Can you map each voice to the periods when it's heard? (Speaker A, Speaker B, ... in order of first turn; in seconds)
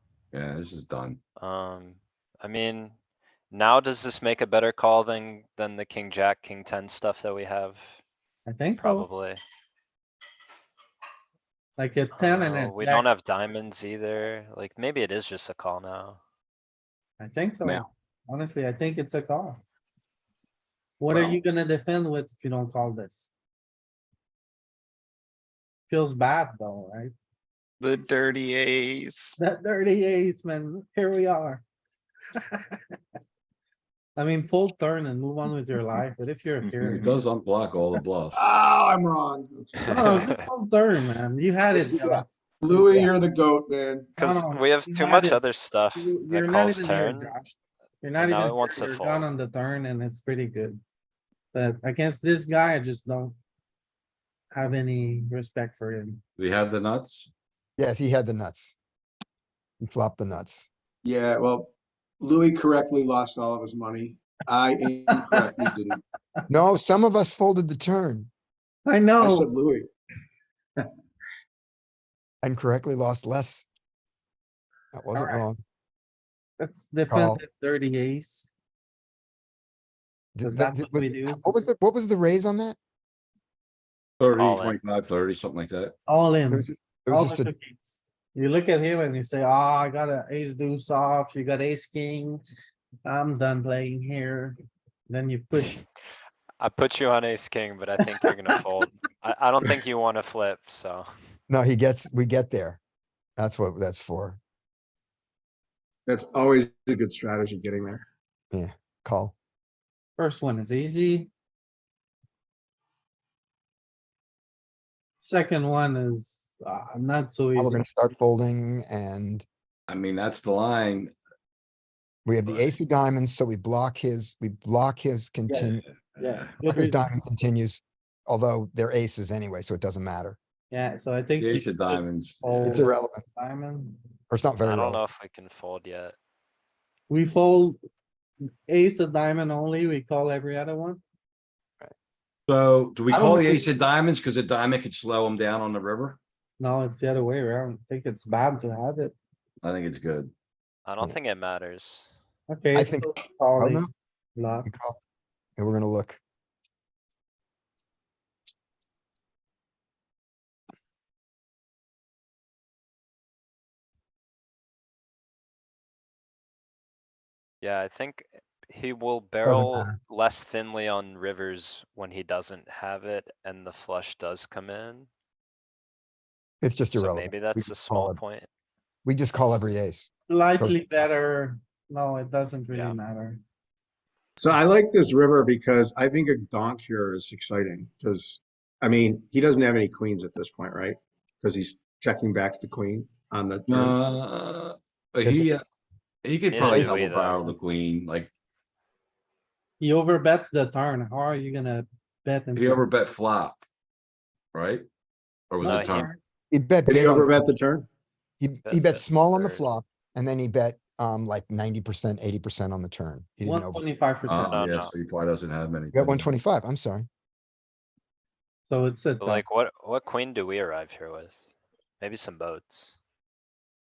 Speaker A: 0.3-1.2, 21.1-21.4, 36.8-38.4, 56.4-57.3, 84.2-85.9, 119.9-121.1, 122.5-122.8, 131.4-132.8, 142.5-146.2, 149.6-150.3, 193.7-195.6, 196.2-198.3, 202.5-203.6, 204.5-204.9, 205.5-206.1, 214.2-216.3
Speaker B: 1.4-2.9, 3.5-7.9, 8.8-9.4, 12.1-16.2, 39.8-40.4, 44.2-47.3, 48.2-49.3, 84.3-84.8, 96.6-101.1, 134.6-136.2, 150.8-152.1, 167.6-175.1, 176.9-178.5, 182.7-183.0, 196.5-197.5, 205.6-206.1, 208.6-209.7, 214.4-214.9, 219.2-221.4, 222.0-223.0
Speaker C: 8.4-9.1, 11.8-13.1, 17.2-19.6, 21.0-23.3, 25.9-27.1, 29.4-31.6, 32.4-32.9, 34.1-37.2, 39.9-42.9, 44.2-45.4, 45.9-50.8, 51.5-53.4, 54.5-56.2, 65.1-65.7, 68.8-69.5, 75.1-75.4, 76.6-78.5, 80.4-81.6, 86.1-92.4, 93.0-94.6, 95.1-95.8, 110.2-111.3, 115.2-117.8, 125.5-127.1, 130.7-134.1, 137.1-137.8, 138.7-141.0, 146.6-149.2, 152.5-154.7, 180.3-183.4, 199.8-202.9, 213.4-214.6, 218.6-219.4
Speaker D: 27.8-29.4, 36.7-37.0
Speaker E: 38.3-40.3, 42.6-44.2, 61.0-66.0, 69.2-69.9, 106.0-108.0, 184.4-194.0, 206.9-207.9
Speaker F: 57.8-58.7, 59.8-60.7, 66.5-68.3, 72.4-73.7, 74.9-75.6, 77.1-77.4, 80.3-82.8, 86.5-87.5, 101.5-102.8, 103.4-104.4, 108.5-109.3, 117.5-119.5, 122.2-125.8, 126.7-130.4, 132.6-133.2, 134.3-135.0, 143.1-143.7, 152.7-153.9, 154.6-155.0, 155.6-156.2, 169.4-169.9, 176.6-178.2, 179.0-180.8, 195.2-195.7, 196.6-197.5, 206.5-207.4, 208.4-213.8, 215.9-217.1